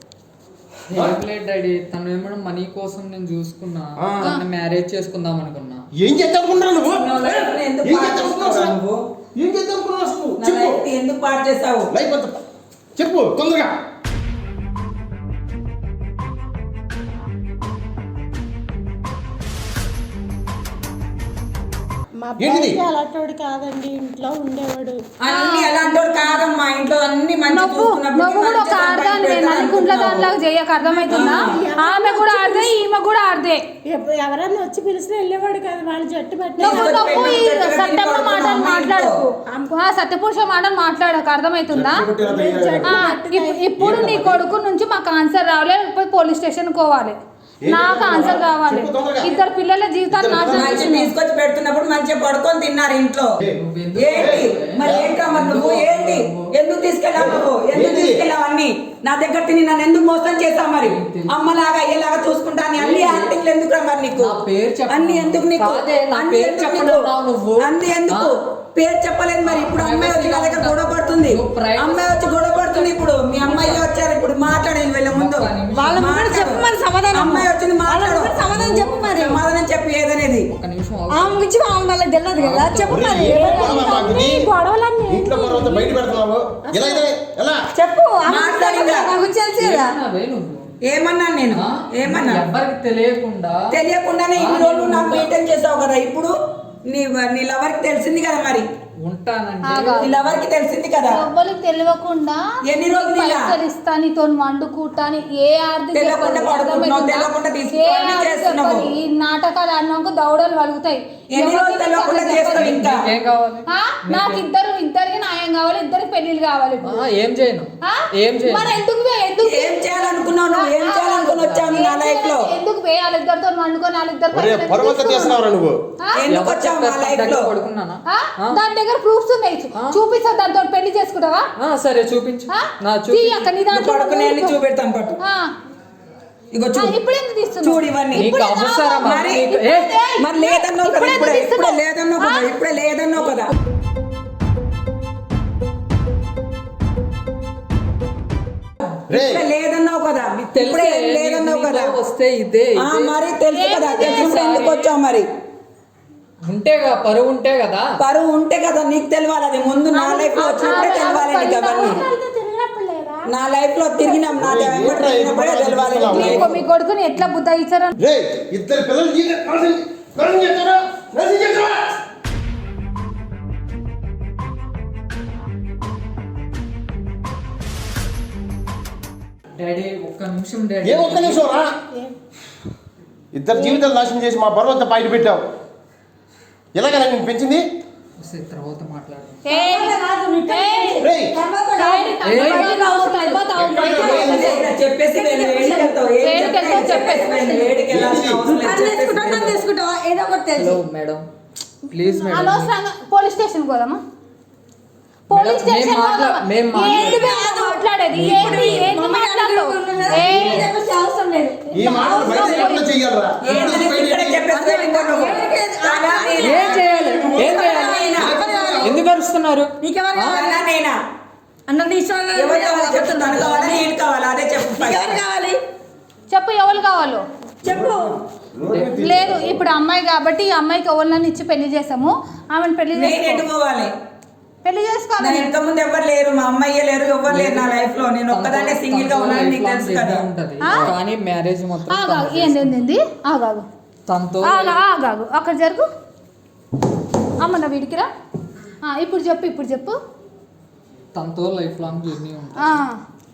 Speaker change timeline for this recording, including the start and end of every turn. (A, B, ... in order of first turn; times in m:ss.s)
0:00.9-0:05.8 A
0:04.0-0:04.4 B
0:06.0-0:08.8 B
0:06.9-0:09.0 C
0:09.4-0:10.8 B
0:10.4-0:11.9 C
0:11.9-0:12.3 B
0:13.0-0:13.7 B
0:22.2-0:25.0 D
0:22.4-0:22.8 B
0:25.2-0:30.3 C
0:25.3-0:25.8 E
0:27.5-0:33.6 E
0:30.9-0:32.7 D
0:31.1-0:31.6 C
0:33.9-0:37.6 D
0:36.6-0:42.0 E
0:36.6-0:39.2 C
0:39.5-0:39.7 D
0:41.7-0:43.0 B
0:42.2-0:43.8 D
0:42.8-0:47.2 E
0:43.8-0:44.4 B
0:47.6-0:49.4 B
0:47.7-0:51.1 E
0:50.1-0:50.9 B
0:50.5-0:53.4 C
0:53.4-0:55.1 B
0:53.5-0:56.5 A
0:54.0-1:04.4 C
0:57.2-0:58.2 B
1:00.8-1:01.4 A
1:02.8-1:03.3 A
1:04.2-1:08.4 A
1:04.9-1:18.4 C
1:09.4-1:13.8 A
1:15.1-1:16.1 A
1:15.7-1:19.4 F
1:18.5-1:19.3 A
1:19.1-1:20.5 C
1:20.5-1:21.5 A
1:21.1-1:24.1 F
1:22.4-1:23.3 A
1:22.9-1:24.5 B
1:23.2-1:26.0 D
1:25.1-1:27.6 B
1:26.7-1:27.1 D
1:27.8-1:30.0 F
1:28.3-1:29.2 C
1:29.6-1:30.7 A
1:30.9-1:32.5 C
1:31.5-1:33.8 A
1:33.7-1:36.3 C
1:34.4-1:35.3 A
1:36.9-1:38.7 C
1:39.0-1:40.3 A
1:39.6-1:40.1 E
1:40.0-1:41.2 C
1:41.1-1:52.8 E
1:42.6-1:43.5 C
1:45.9-1:48.9 C
1:51.3-1:53.1 C
1:52.5-1:54.4 A
1:53.7-1:57.1 E
1:56.8-1:58.8 A
1:57.8-2:05.4 E
1:59.4-2:02.5 C
2:01.4-2:01.9 A
2:04.3-2:05.8 B
2:06.0-2:06.3 E
2:06.1-2:07.5 C
2:06.3-2:08.6 A
2:08.1-2:11.5 E
2:11.6-2:13.5 A
2:12.5-2:14.6 E
2:13.7-2:15.2 C
2:15.2-2:15.5 E
2:16.5-2:17.0 C
2:16.7-2:22.5 E
2:17.6-2:18.3 C
2:18.1-2:19.9 A
2:19.0-2:19.5 C
2:20.2-2:23.5 C
2:29.1-2:29.4 B
2:29.1-2:31.9 C
2:30.4-2:33.2 A
2:32.8-2:35.2 C
2:33.5-2:34.6 E
2:34.0-2:34.9 A
2:36.5-2:37.9 A
2:38.0-2:42.0 C
2:39.9-2:42.0 E
2:40.3-2:43.3 D
2:43.3-2:46.5 C
2:44.3-2:46.5 B
2:46.1-2:48.0 E
2:48.0-2:52.0 B
2:59.6-3:01.4 A
3:00.8-3:01.7 B
3:03.3-3:05.4 B
3:06.8-3:07.6 B
3:08.2-3:09.4 A
3:09.4-3:11.1 E
3:09.5-3:14.6 F
3:11.0-3:11.4 B
3:11.8-3:14.6 E
3:12.2-3:12.8 A
3:13.5-3:14.6 B
3:13.8-3:19.6 C
3:15.2-3:16.8 F
3:15.6-3:17.7 E
3:17.9-3:18.5 B
3:18.5-3:20.8 F
3:20.6-3:21.2 A
3:21.9-3:22.7 A
3:22.3-3:24.0 E
3:25.3-3:30.7 E
3:25.3-3:27.3 A
3:26.8-3:32.8 F
3:31.7-3:32.9 E
3:31.7-3:34.4 B
3:33.4-3:38.5 C
3:33.5-3:39.0 F
3:36.4-3:38.2 A
3:37.0-3:37.6 B
3:38.1-3:39.0 B
3:38.8-3:40.4 A
3:39.8-3:40.6 F
3:40.3-3:41.0 C
3:41.7-3:43.9 F
3:42.4-3:45.2 C
3:44.8-3:45.6 F
3:46.3-3:47.2 E
3:47.6-3:48.1 F
3:47.7-3:48.0 B
3:48.6-3:49.6 B
3:48.7-3:49.1 A
3:48.9-3:53.4 E
3:52.9-3:53.9 C
3:54.6-3:55.5 E
3:55.2-4:00.2 C
3:57.3-3:57.6 A
3:58.3-4:02.8 A
4:01.9-4:03.7 E
4:04.1-4:04.8 A
4:04.4-4:05.9 E
4:07.4-4:08.1 E
4:08.8-4:10.0 E
4:11.2-4:12.8 A
4:12.6-4:13.0 E